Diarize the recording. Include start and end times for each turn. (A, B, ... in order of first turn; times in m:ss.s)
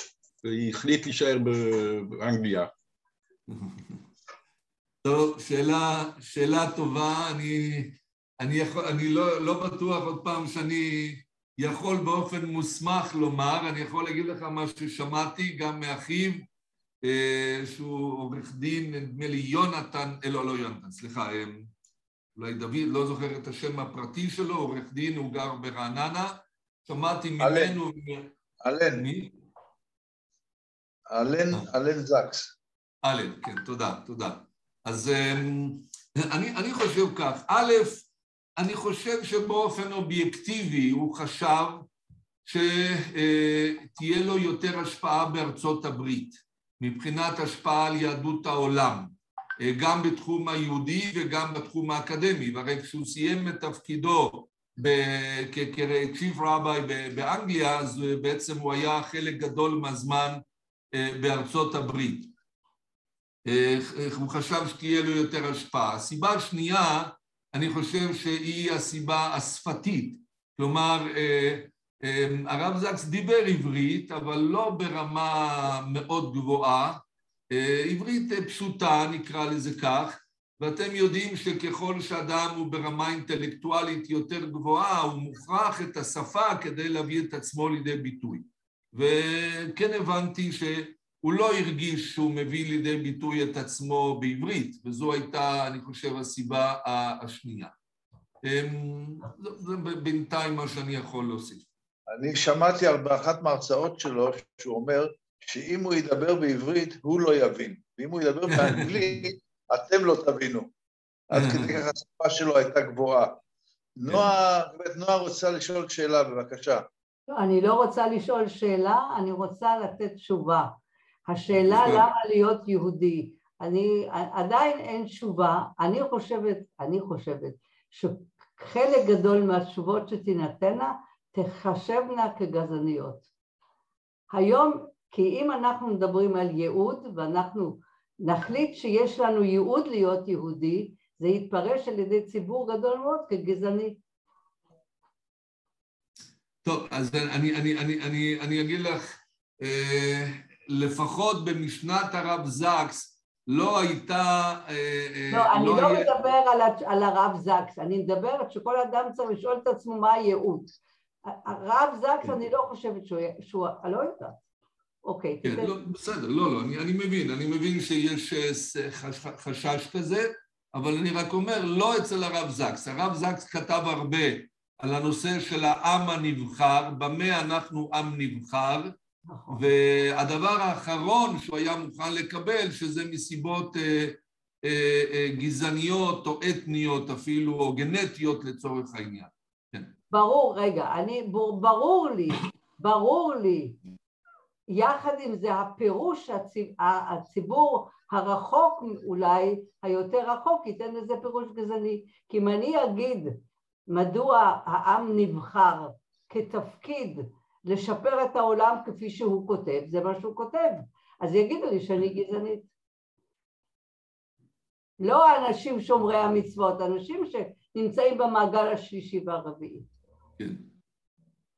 0:00.4-0:02.7 A
0:03.5-0:03.8 B
0:05.0-0:16.4 B
0:17.0-0:21.7 B
0:22.4-0:28.3 B
0:27.4-0:27.8 C
0:28.6-0:29.0 C
0:28.9-0:29.3 B
0:31.1-0:32.5 C
0:33.0-0:38.0 B
0:38.6-0:41.8 B
0:42.4-1:00.4 B
1:00.9-1:02.3 B
1:03.4-1:37.7 B
1:38.4-1:41.6 B
1:42.1-1:50.7 C
1:48.5-1:49.1 B
1:51.3-1:53.4 C
1:51.3-1:51.8 B
1:54.0-1:56.8 C
1:54.1-1:54.4 B
1:57.3-2:00.8 D
2:01.3-2:13.2 D
2:01.5-2:02.1 B
2:14.3-2:24.0 D
2:26.6-2:36.1 B
2:35.3-2:40.7 D
2:41.2-2:44.4 D
2:45.0-2:45.7 D
2:45.4-2:58.9 B
2:59.3-2:59.6 D
2:59.5-3:09.9 B
3:10.1-3:13.8 D
3:14.7-3:23.4 D
3:23.9-3:32.7 D
3:35.0-3:39.8 D
3:40.4-3:40.6 B